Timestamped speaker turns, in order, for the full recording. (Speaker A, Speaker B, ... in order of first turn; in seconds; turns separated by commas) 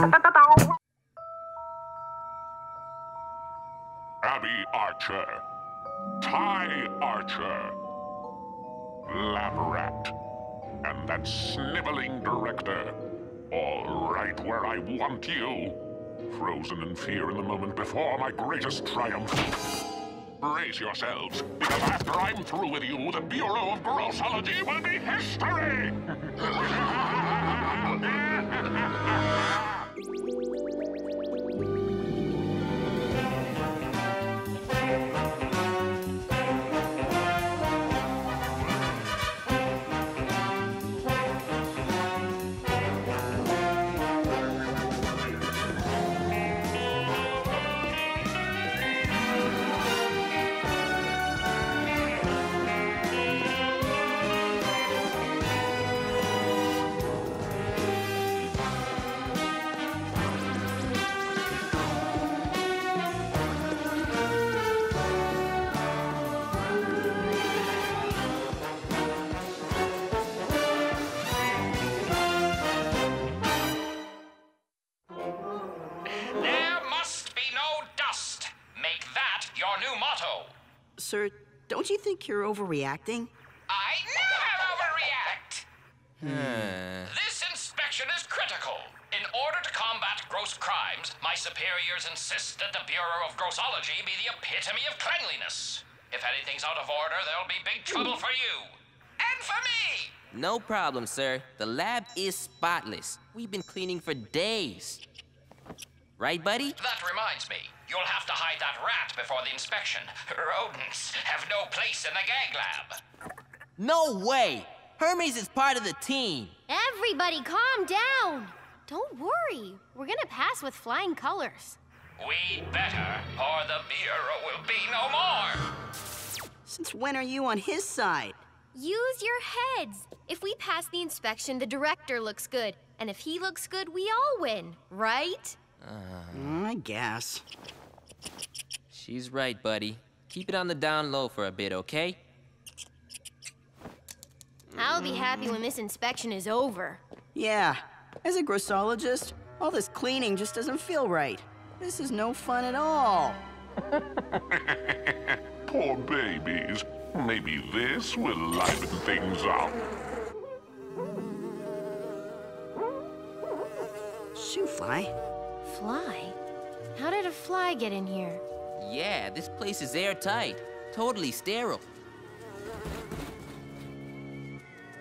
Speaker A: 4.2-5.4, Speaker A: 6.2-7.7, Speaker A: 9.1-10.1, Speaker A: 10.8-12.9, Speaker A: 13.5-15.7, Speaker A: 16.3-19.4, Speaker A: 20.4-29.5, Speaker B: 76.1-80.5, Speaker C: 81.0-83.3, Speaker B: 83.7-85.7, Speaker C: 86.2-86.7, Speaker D: 86.2-87.1, Speaker B: 87.0-100.1, Speaker D: 100.3-105.0, Speaker D: 106.2-106.8, Speaker B: 106.8-113.0, Speaker D: 113.8-116.5, Speaker E: 116.7-121.8, Speaker B: 122.2-125.6, Speaker C: 126.6-128.4, Speaker E: 128.7-135.6, Speaker D: 135.8-136.6, Speaker C: 136.3-137.4, Speaker D: 138.9-142.2, Speaker E: 144.7-147.0, Speaker C: 147.3-153.4, Speaker A: 154.3-159.8, Speaker C: 164.3-165.1, Speaker E: 165.6-166.3, Speaker E: 166.9-168.4, Speaker D: 168.8-171.8